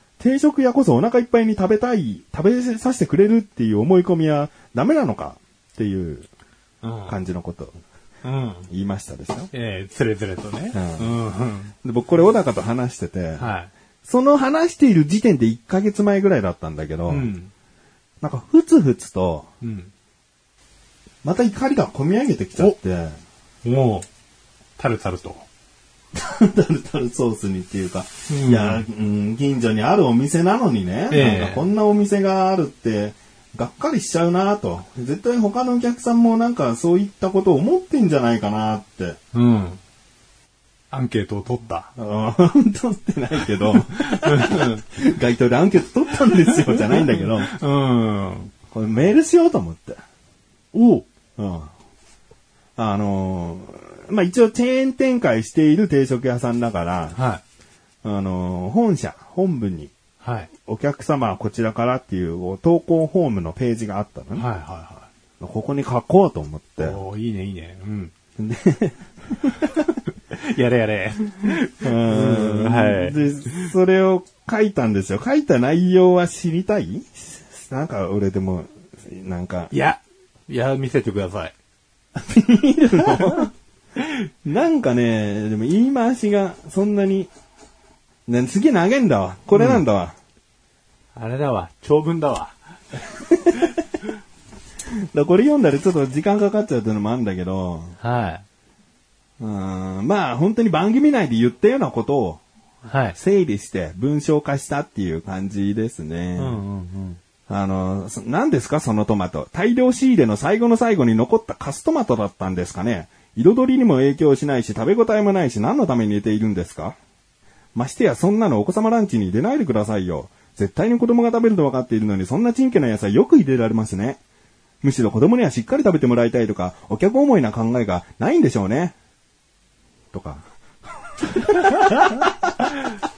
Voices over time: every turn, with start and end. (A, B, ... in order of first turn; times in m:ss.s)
0:00.2-0:06.3 A
0:06.8-0:07.1 B
0:07.1-0:07.7 A
0:08.2-0:08.7 B
0:08.7-0:09.5 A
0:09.5-0:11.7 B
0:10.7-0:11.1 A
0:11.8-0:13.4 A
0:13.4-0:13.7 B
0:14.0-0:17.3 A
0:17.1-0:17.5 B
0:18.2-0:19.5 A
0:19.6-0:19.9 B
0:21.2-0:23.2 A
0:23.6-0:24.1 B
0:24.8-0:25.4 B
0:26.1-0:39.2 A
0:28.3-0:28.8 B
0:31.1-0:31.6 B
0:39.3-0:39.8 B
0:40.9-0:41.9 B
0:42.0-0:47.5 A
0:43.7-0:44.8 B
0:46.5-0:48.5 B
0:48.7-0:50.0 A
0:50.7-0:51.0 B
0:51.4-0:51.7 A
0:52.8-0:57.2 A
0:57.1-0:57.4 B
0:58.0-0:59.9 A
1:00.2-1:00.5 B
1:00.6-1:04.4 A
1:04.3-1:05.1 B
1:05.4-1:07.0 A
1:06.8-1:08.1 B
1:08.4-1:09.7 A
1:10.3-1:13.7 B
1:11.8-1:19.7 A
1:19.7-1:21.5 B
1:22.2-1:23.5 A
1:23.0-1:23.4 B
1:24.4-1:27.3 A
1:28.3-1:30.2 A
1:29.5-1:29.8 B
1:31.2-1:32.5 B
1:33.1-1:33.7 A
1:35.1-1:38.0 A
1:38.0-1:38.4 B
1:39.4-1:42.4 A
1:42.8-1:43.2 B
1:43.2-1:46.6 A
1:46.4-1:47.2 B
1:47.5-1:57.0 A
1:57.7-2:04.2 A
2:04.8-2:08.9 A
2:10.1-2:10.4 A
2:11.2-2:12.7 A